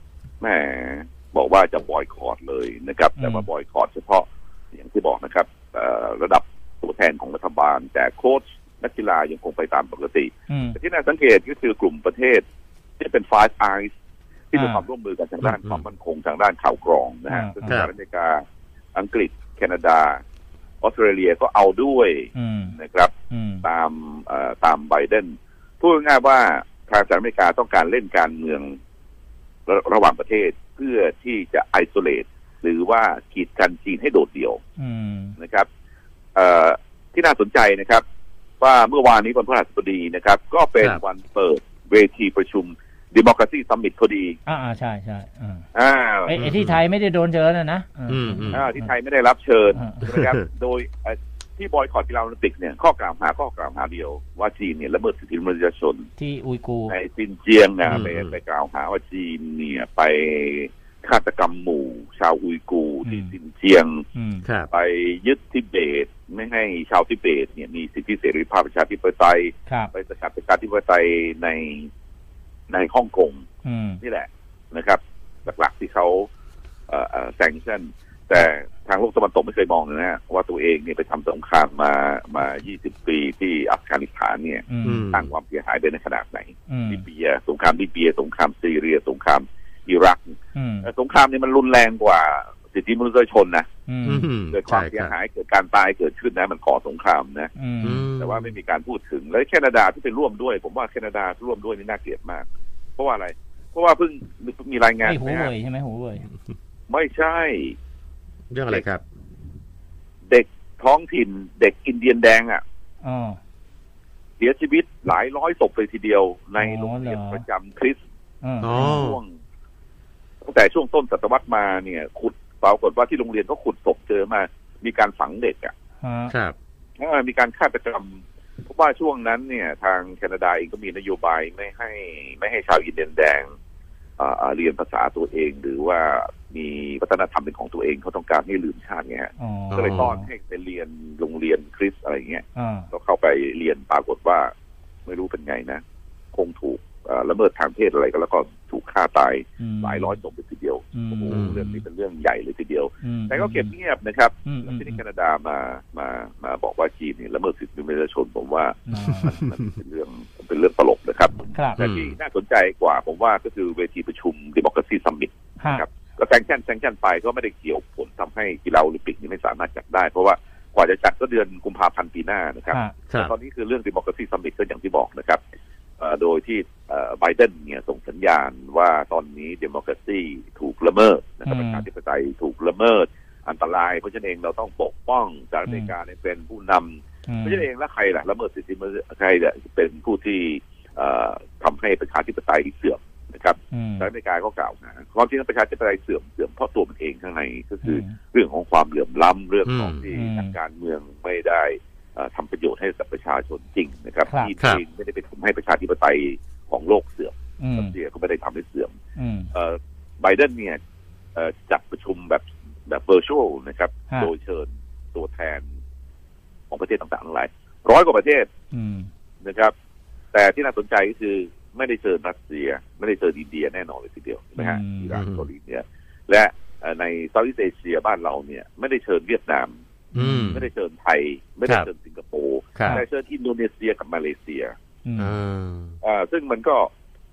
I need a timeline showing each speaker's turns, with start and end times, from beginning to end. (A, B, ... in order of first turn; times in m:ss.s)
0:00.4-0:12.4 A
0:03.2-0:03.5 B
0:10.5-0:10.8 B
0:13.0-0:13.9 A
0:14.5-0:18.4 A
0:14.5-0:14.8 B
0:15.5-0:15.8 C
0:17.3-0:17.8 B
0:19.0-0:20.2 A
0:20.8-0:23.1 A
0:22.4-0:22.8 B
0:23.3-0:23.6 B
0:23.6-0:28.8 A
0:29.7-0:34.6 A
0:34.8-0:35.4 B
0:35.4-0:35.7 A
0:36.4-0:38.0 A
0:38.6-0:44.4 A
0:44.5-0:45.7 B
0:45.8-0:46.4 A
0:46.3-0:48.9 B
0:46.4-0:46.8 C
0:48.1-0:48.6 C
0:48.5-0:56.1 A
0:49.7-0:50.1 B
0:56.2-0:57.0 B
0:56.9-1:04.0 A
0:57.9-0:58.3 C
1:03.0-1:03.3 B
1:04.2-1:04.5 B
1:04.7-1:11.9 A
1:12.7-1:13.4 A
1:13.6-1:14.0 B
1:14.0-1:16.3 A
1:16.9-1:33.7 A
1:24.7-1:25.1 B
1:24.8-1:25.3 C
1:26.7-1:27.0 B
1:30.6-1:30.9 B
1:33.9-1:34.3 B
1:34.0-1:35.1 C
1:34.5-1:37.5 A
1:37.6-1:38.1 B
1:37.8-1:38.5 C
1:38.2-1:42.4 A
1:43.0-1:45.5 A
1:45.0-1:46.3 B
1:46.9-1:47.8 A
1:48.5-1:49.0 C
1:50.3-1:52.6 A
1:53.0-1:53.4 B
1:54.4-1:58.0 A
1:56.6-1:57.4 B
1:58.4-1:59.0 B
1:58.6-1:59.2 C
1:58.8-1:59.4 A
2:00.4-2:05.7 A
2:06.0-2:06.3 B
2:07.0-2:13.5 A
2:14.2-2:24.5 A
2:19.4-2:20.2 B
2:19.7-2:20.1 C
2:22.6-2:22.9 B
2:25.1-2:25.8 A
2:26.3-2:55.4 A
2:29.6-2:30.2 B
2:30.9-2:31.8 B
2:31.3-2:31.6 C
2:33.0-2:33.7 B
2:34.4-2:35.0 B
2:38.9-2:39.4 B
2:41.5-2:41.8 B
2:41.8-2:42.1 C
2:45.6-2:45.8 B
2:56.0-3:28.9 A
3:01.5-3:01.8 B
3:05.7-3:05.9 B
3:07.3-3:07.6 B
3:13.7-3:14.1 B
3:17.8-3:18.2 B
3:19.7-3:20.0 C
3:20.1-3:20.5 B
3:24.3-3:24.5 B
3:27.6-3:28.0 B
3:29.2-3:29.5 B
3:29.5-3:30.8 A
3:31.4-3:35.7 A
3:36.7-3:38.5 A
3:38.7-3:39.1 B
3:39.4-3:39.7 A
3:40.3-3:49.8 A
3:44.6-3:45.2 B
3:45.1-3:45.5 C
3:50.1-3:50.6 B
3:50.2-3:50.7 C
3:50.5-3:54.8 A
3:52.8-3:53.0 C
3:55.0-3:55.4 B
3:55.2-3:55.9 C
3:56.0-3:56.9 A